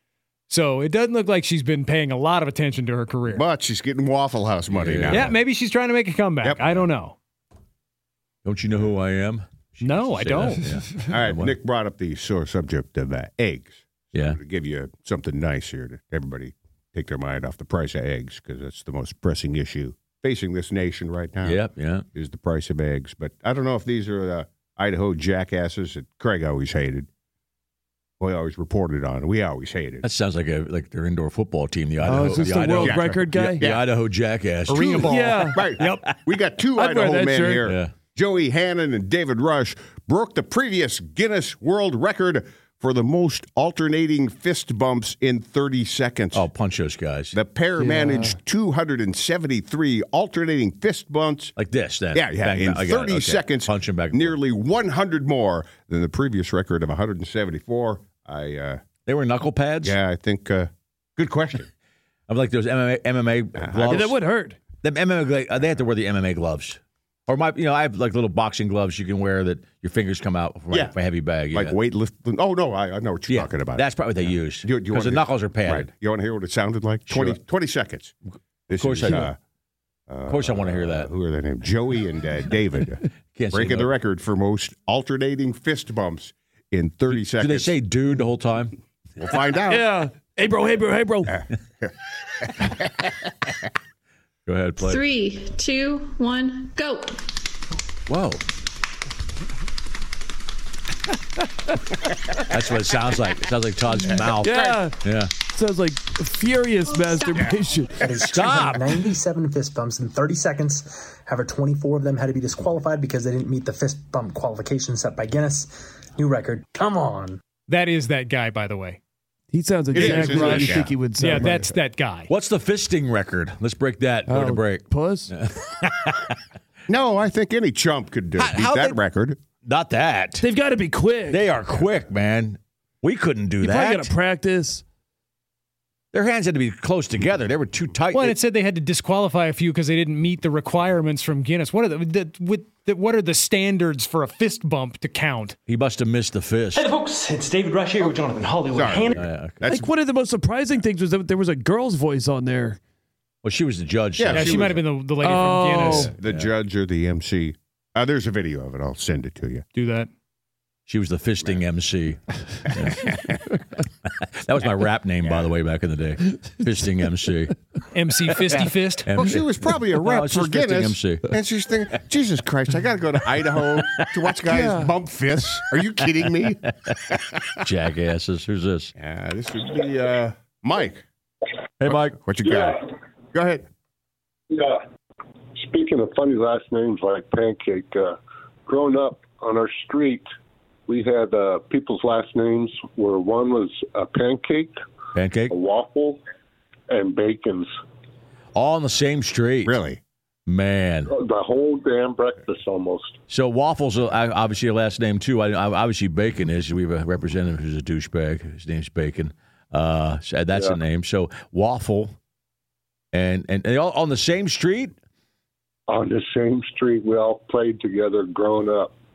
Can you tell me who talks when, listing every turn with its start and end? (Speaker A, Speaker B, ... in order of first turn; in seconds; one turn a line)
Speaker A: 0.5-3.5
Speaker B: 3.3-5.3
Speaker C: 4.7-5.4
Speaker A: 5.1-7.2
Speaker C: 8.4-11.5
Speaker A: 9.8-10.7
Speaker B: 11.1-21.6
Speaker C: 14.1-14.4
Speaker C: 21.4-22.1
Speaker B: 22.1-27.1
Speaker B: 28.2-30.1
Speaker C: 30.0-35.2
Speaker D: 32.0-33.6
Speaker B: 32.7-33.9
Speaker A: 34.7-36.1
Speaker D: 35.0-35.7
Speaker B: 35.4-46.5
Speaker D: 36.8-37.6
Speaker C: 37.6-37.9
Speaker C: 46.3-47.4
Speaker B: 47.3-51.5
Speaker D: 47.8-48.4
Speaker C: 51.6-54.4
Speaker B: 52.1-58.8
Speaker C: 59.1-60.0
Speaker B: 59.8-61.7
Speaker C: 62.3-64.2
Speaker B: 63.6-64.1
Speaker D: 63.9-64.6
Speaker C: 64.8-71.8
Speaker B: 71.5-78.2
Speaker C: 73.3-75.9
Speaker C: 77.1-77.4
Speaker B: 78.7-79.4
Speaker C: 78.8-79.3
Speaker B: 80.1-87.7
Speaker C: 80.3-81.1
Speaker C: 83.4-83.9
Speaker C: 87.1-88.8
Speaker B: 89.2-89.9
Speaker D: 89.7-91.4
Speaker B: 91.3-91.9
Speaker C: 94.5-95.0
Speaker E: 94.8-97.2
Speaker C: 98.1-98.4
Speaker C: 102.5-105.3
Speaker B: 104.2-104.8
Speaker D: 104.4-108.6
Speaker E: 106.9-107.6
Speaker F: 108.0-117.4
Speaker C: 108.3-108.9
Speaker A: 117.7-119.0
Speaker D: 119.5-121.7
Speaker B: 119.9-121.6
Speaker A: 120.0-122.3
Speaker C: 122.3-126.3
Speaker D: 124.3-125.3
Speaker B: 126.9-129.4
Speaker C: 128.4-129.0
Speaker C: 129.6-130.5
Speaker D: 130.4-131.4
Speaker C: 131.3-134.1
Speaker D: 133.6-134.8
Speaker C: 136.1-138.4
Speaker A: 138.1-145.6
Speaker C: 145.7-146.9
Speaker F: 147.0-149.1
Speaker A: 147.8-149.2
Speaker B: 148.7-149.9
Speaker C: 149.1-149.6
Speaker D: 149.7-152.8
Speaker C: 153.4-154.7
Speaker B: 154.2-154.8
Speaker A: 154.3-156.1
Speaker D: 155.2-156.1
Speaker B: 155.9-159.7
Speaker C: 156.2-156.5
Speaker A: 159.7-160.1
Speaker C: 160.9-163.4
Speaker B: 163.0-163.3
Speaker C: 164.1-167.6
Speaker A: 167.9-169.1
Speaker C: 168.4-171.3
Speaker B: 169.1-177.2
Speaker C: 173.8-174.1
Speaker D: 174.5-174.9
Speaker C: 177.6-178.9
Speaker B: 179.0-181.0
Speaker C: 181.8-182.2
Speaker B: 182.2-183.7
Speaker G: 182.4-182.8
Speaker G: 184.5-184.8
Speaker G: 185.6-190.3
Speaker G: 190.9-194.8
Speaker C: 195.1-195.5
Speaker G: 195.5-196.2
Speaker G: 196.9-197.7
Speaker C: 198.6-199.8
Speaker B: 199.7-200.0
Speaker C: 200.5-201.1
Speaker G: 201.1-203.2
Speaker C: 203.3-212.2
Speaker G: 210.5-210.8
Speaker C: 213.1-214.9
Speaker G: 215.9-218.9